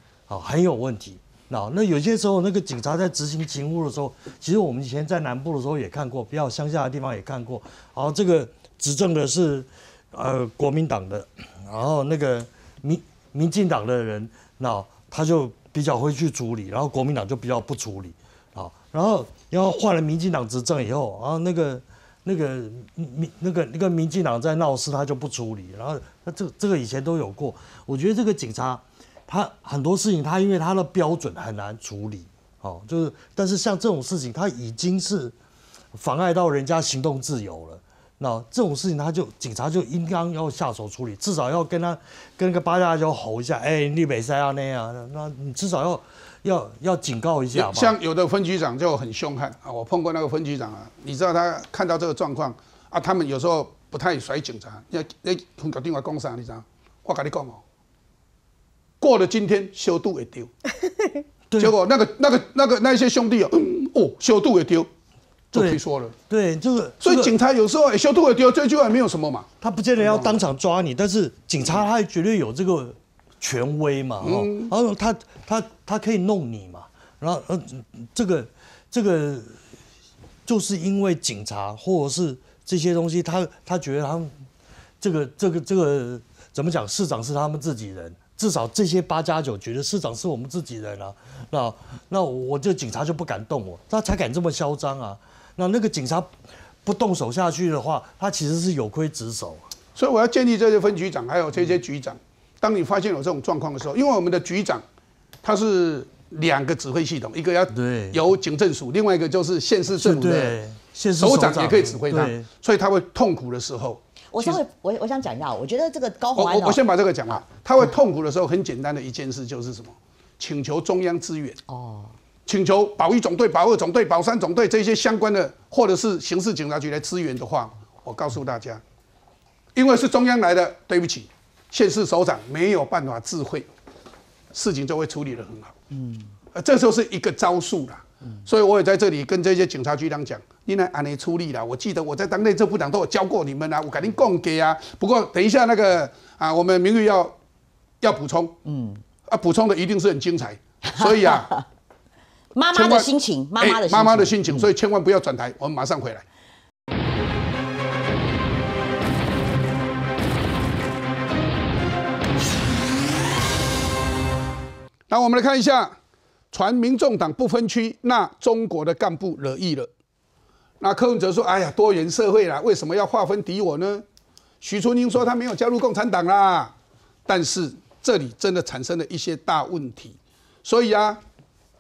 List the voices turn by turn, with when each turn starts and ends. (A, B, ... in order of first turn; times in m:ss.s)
0:00.3-0:35.4 A
0:36.0-0:48.0 A
0:47.5-0:57.6 B
0:59.0-1:00.5 B
1:01.6-1:04.9 B
1:05.5-1:06.1 B
1:05.5-1:07.3 A
1:07.0-1:10.4 B
1:09.6-1:19.6 A
1:14.2-1:14.7 B
1:20.4-1:24.3 A
1:25.0-1:36.3 A
1:36.8-1:39.6 A
1:40.0-1:44.8 B
1:45.4-1:50.6 B
1:47.7-1:48.2 A
1:49.9-1:52.4 A
1:51.2-1:54.6 B
1:54.3-1:56.8 C
1:56.4-2:01.6 B
2:01.7-2:02.1 C
2:02.5-2:08.8 B
2:09.8-2:13.7 B
2:14.5-2:15.8 B
2:15.9-2:16.3 C
2:16.5-2:27.4 B
2:28.0-2:28.6 B
2:28.7-2:29.0 C
2:29.3-2:31.5 B
2:30.9-2:31.6 C
2:32.6-2:34.7 C
2:32.7-2:36.2 B
2:45.1-2:46.0 B
2:46.5-2:49.9 B
2:50.8-2:54.0 B
2:54.6-2:56.7 B
2:57.3-3:01.2 B